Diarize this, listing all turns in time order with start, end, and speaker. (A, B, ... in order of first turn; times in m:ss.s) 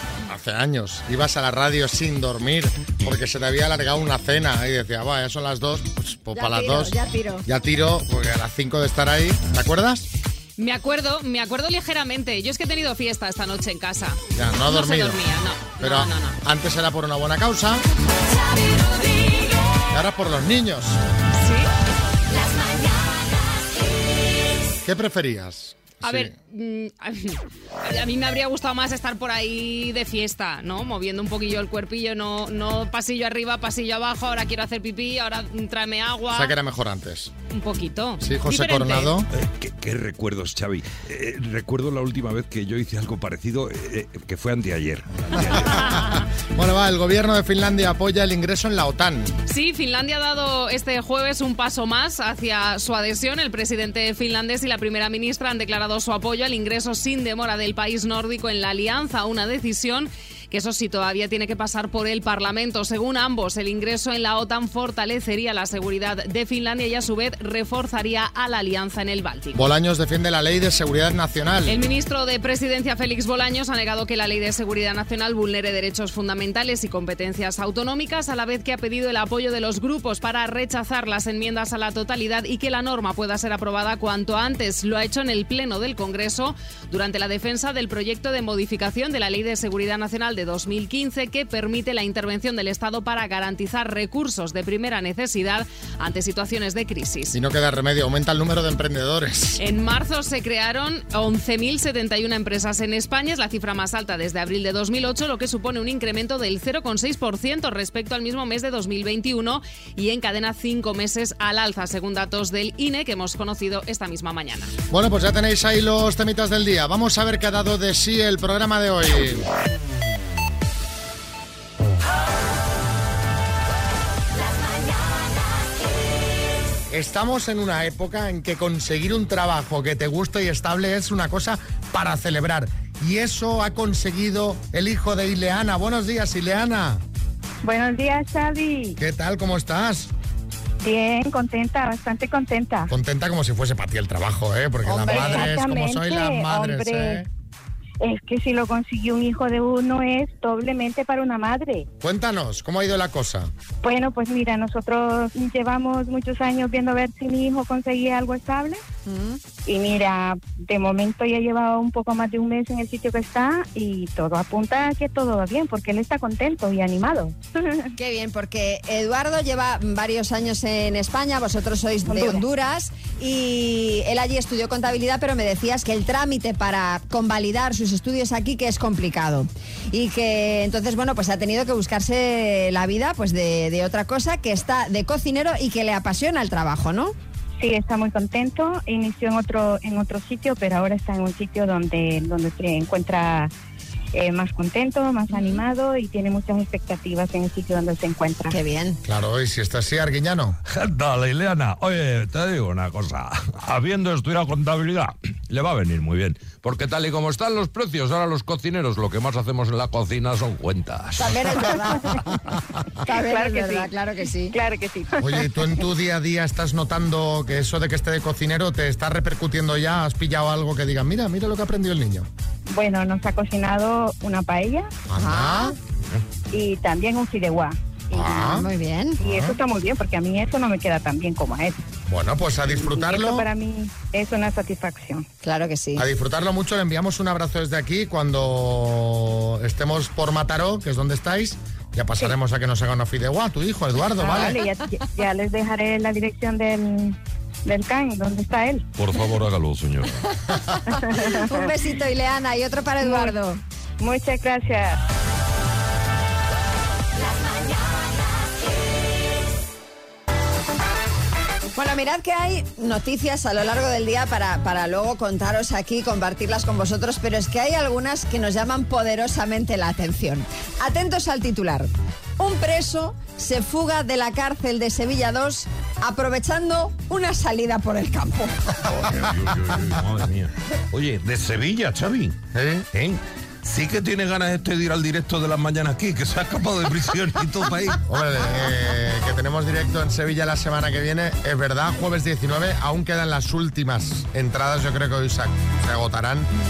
0:00.3-0:06.9 A
0:06.3-0:07.4 B
0:07.4-0:10.1 A
0:10.6-0:16.4 C
0:14.3-0:15.2 A
0:15.8-0:17.8 A
0:19.9-0:21.0 A
0:21.4-0:21.7 C
0:24.8-0:26.3 A
0:26.0-0:36.5 C
0:36.3-0:37.3 A
0:37.5-0:39.1 C
0:38.2-0:39.3 A
0:39.3-0:45.8 D
0:45.5-0:49.4 A
0:45.6-0:46.2 C
0:49.5-1:09.6 C
1:09.5-1:11.8 A
1:11.7-1:37.4 C
1:37.3-1:39.6 A
1:39.6-1:54.7 C
1:54.9-1:59.4 A
2:06.9-2:17.0 A
2:17.6-2:19.0 E
2:19.0-2:20.1 A
2:20.8-2:22.9 E
2:22.9-2:27.3 A
2:24.9-2:27.2 E
2:25.0-2:25.5 B
2:28.0-2:31.9 E
2:32.0-2:33.5 A
2:33.8-2:38.8 E
2:39.0-2:39.4 B
2:39.6-2:47.9 E
2:48.0-3:07.1 B
2:52.1-2:52.4 E
3:07.6-3:13.5 E
3:14.1-3:18.6 E
3:18.5-3:19.0 B
3:19.0-3:20.6 A
3:20.7-3:31.6 D
3:31.2-3:32.4 B
3:33.0-3:34.5 B
3:33.1-3:33.9 E
3:34.5-3:35.6 E
3:35.2-3:42.3 A
3:42.7-3:44.9 E
3:45.1-3:45.8 A
3:45.2-3:45.7 B
3:46.5-3:48.6 E
3:48.1-3:48.7 A
3:48.4-3:49.2 B
3:49.2-3:49.6 A
3:49.2-3:51.8 E
3:52.1-3:53.5 A
3:52.8-3:55.2 E
3:55.4-3:56.0 B
3:56.0-4:04.6 A
4:04.2-4:08.8 E
4:09.0-4:10.3 D
4:10.9-4:11.7 E
4:11.2-4:13.6 B
4:13.0-4:13.4 E
4:14.0-4:15.0 E
4:21.7-4:38.5 B
4:38.8-4:42.4 D
4:39.0-4:39.3 A
4:42.5-4:42.8 A
4:42.9-4:48.0 D
4:48.1-4:56.5 A